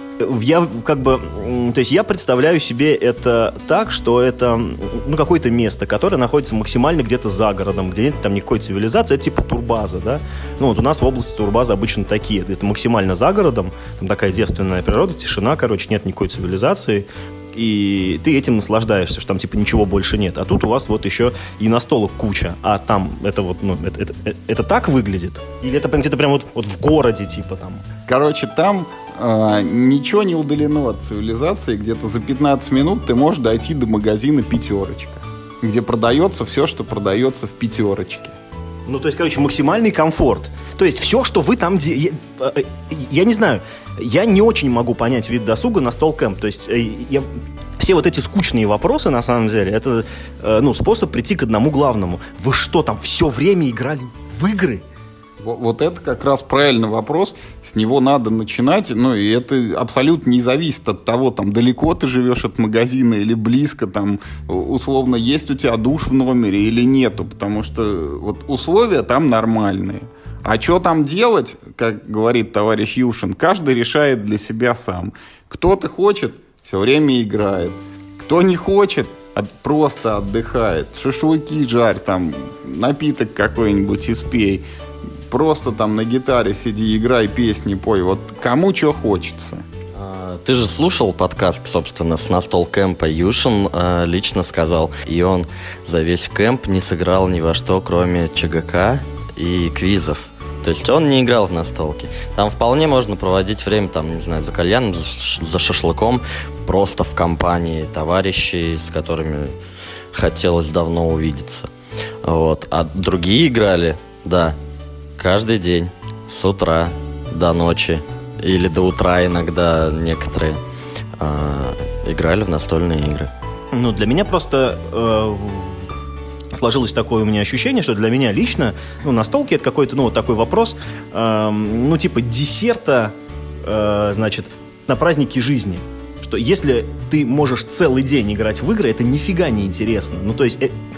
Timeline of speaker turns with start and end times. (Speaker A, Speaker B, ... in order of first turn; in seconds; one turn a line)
Speaker A: 0.2-27.8
Speaker B: 28.1-38.4
Speaker A: 38.9-54.8
Speaker B: 55.4-84.6
Speaker B: 85.3-89.6
Speaker C: 90.0-109.6
Speaker C: 110.1-111.7
Speaker C: 112.2-114.6
Speaker C: 115.2-120.6
Speaker C: 121.2-123.3
Speaker A: 123.7-125.9
Speaker A: 126.5-140.8